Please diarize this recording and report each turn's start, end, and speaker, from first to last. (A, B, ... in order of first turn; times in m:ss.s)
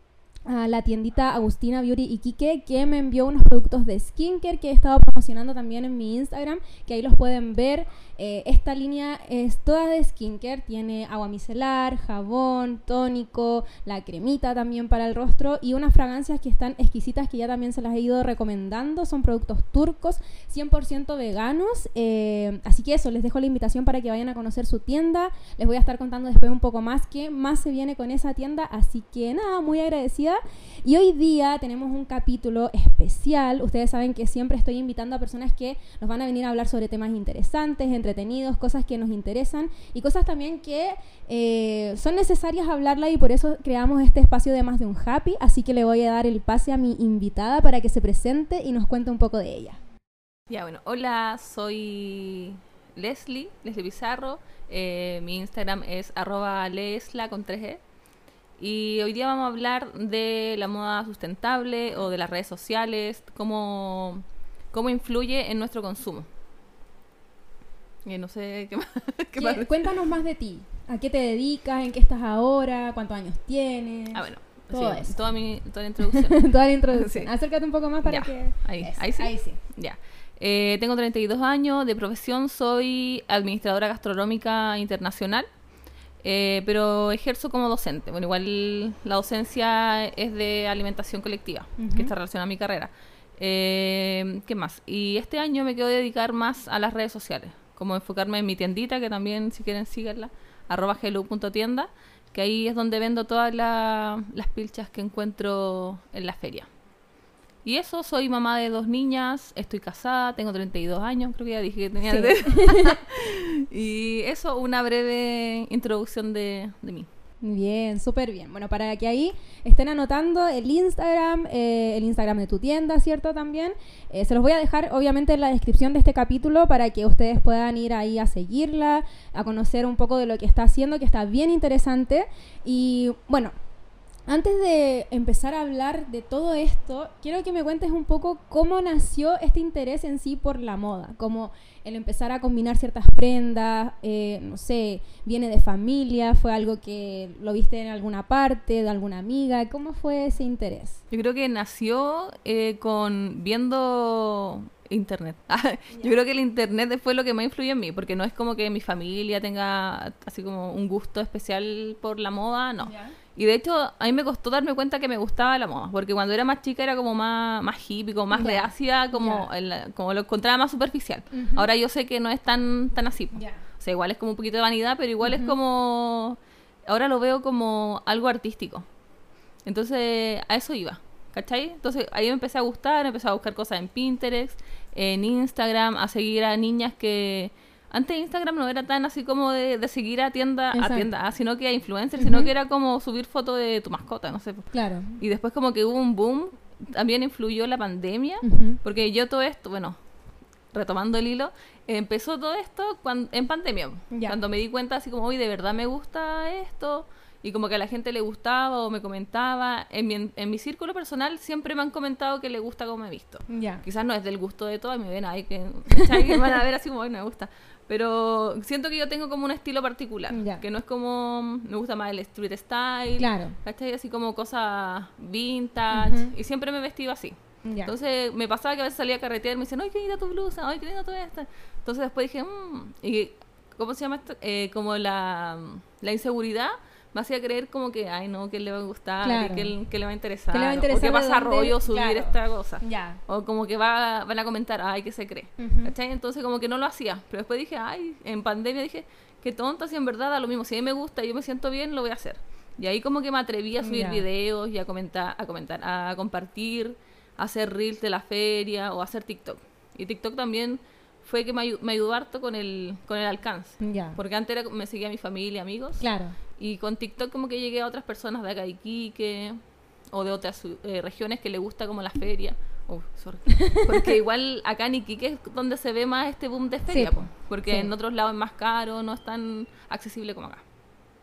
0:00.5-0:49.8 A
0:50.5-0:57.8 B
0:58.6-1:06.3 B
1:08.0-1:09.9 B
1:09.4-1:15.2 A
1:14.1-1:16.4 B
1:16.0-1:19.6 A
1:16.9-1:17.3 B
1:18.0-1:25.5 B
1:26.2-1:46.7 B
1:31.8-1:32.1 A
1:47.6-1:57.1 B
1:52.0-1:53.0 A
1:57.4-2:13.5 A
2:14.3-2:31.0 A
2:31.1-2:58.9 B
2:42.8-2:43.1 A
2:48.3-2:49.5 A
2:51.3-2:51.7 A
2:53.3-2:53.6 A
2:55.2-2:55.6 A
2:59.6-3:20.0 B
3:10.7-3:11.1 A
3:12.2-3:12.5 A
3:14.7-3:15.2 A
3:18.4-3:18.8 A
3:20.7-4:26.0 B
3:24.1-3:24.4 A
3:33.5-3:33.8 A
3:35.9-3:36.4 A
3:40.3-3:40.6 A
3:43.2-3:43.6 A
3:45.9-3:46.3 A
3:47.6-3:47.9 A
3:59.2-3:59.7 A
4:00.5-4:03.2 A
4:05.6-4:05.9 A
4:13.8-4:14.2 A
4:23.8-4:24.2 A
4:26.0-4:26.4 A
4:26.6-4:29.6 B
4:30.1-4:40.6 B
4:33.5-4:34.2 A
4:36.8-4:37.9 A